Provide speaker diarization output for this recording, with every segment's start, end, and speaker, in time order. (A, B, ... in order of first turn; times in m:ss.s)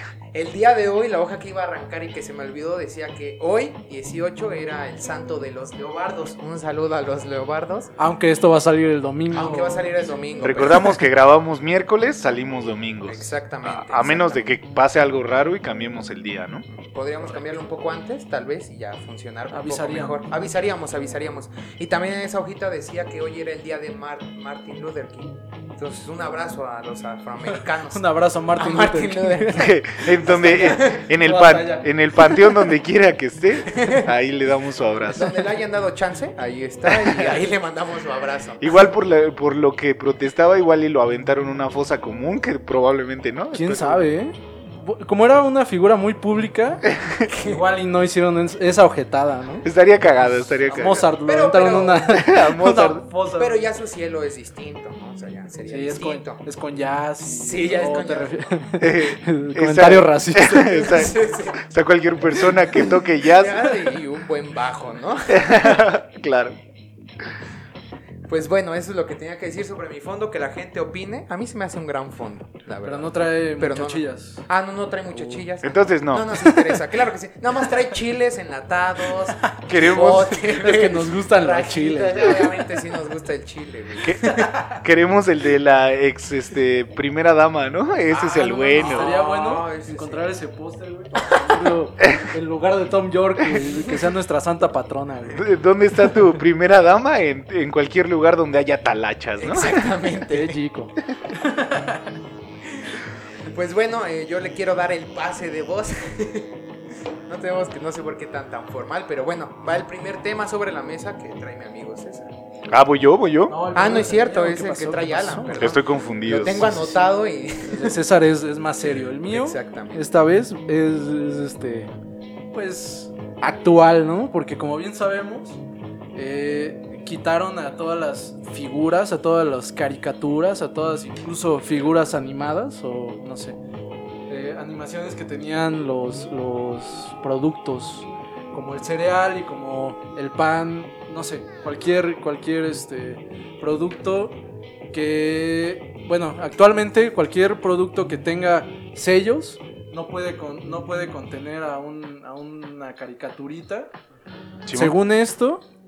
0:00.3-0:07.9 A
0:08.0-0:10.8 B
0:09.3-0:11.0 A
0:10.4-0:16.7 C
0:13.1-0:14.5 A
0:16.7-0:31.1 A
0:19.5-0:20.2 B
0:27.4-0:32.5 B
0:29.5-0:35.3 C
0:33.7-0:34.1 A
0:35.1-0:38.8 A
0:36.9-0:37.4 C
0:38.6-0:44.1 C
0:43.5-0:49.7 B
0:47.2-0:47.6 A
0:49.6-0:51.0 C
0:50.6-0:53.6 B
0:50.9-0:52.1 A
0:52.1-0:53.0 C
0:53.4-0:56.4 A
0:55.7-1:01.0 B
0:57.2-0:58.5 A
0:58.8-1:03.7 C
1:00.6-1:01.6 A
1:03.2-1:05.8 A
1:05.3-1:06.6 C
1:08.3-1:24.6 A
1:12.8-1:14.4 B
1:15.1-1:15.4 B
1:15.6-1:16.4 C
1:16.4-1:16.8 B
1:19.3-1:19.6 B
1:19.7-1:20.4 C
1:20.3-1:22.6 B
1:24.0-1:29.2 C
1:28.1-1:30.3 A
1:28.8-1:35.4 B
1:35.3-1:40.0 C
1:39.4-1:40.6 A
1:40.3-1:42.1 B
1:43.5-1:46.5 A
1:47.3-1:52.3 A
1:52.7-1:53.6 C
1:53.5-1:57.1 B
1:53.7-1:58.0 A
1:55.6-1:56.6 C
1:57.6-2:01.9 B
1:59.0-2:00.1 A
2:02.5-2:05.6 B
2:06.2-2:13.6 B
2:14.3-2:24.4 B
2:24.9-2:33.9 B
2:34.6-2:35.0 C
2:34.7-2:35.6 B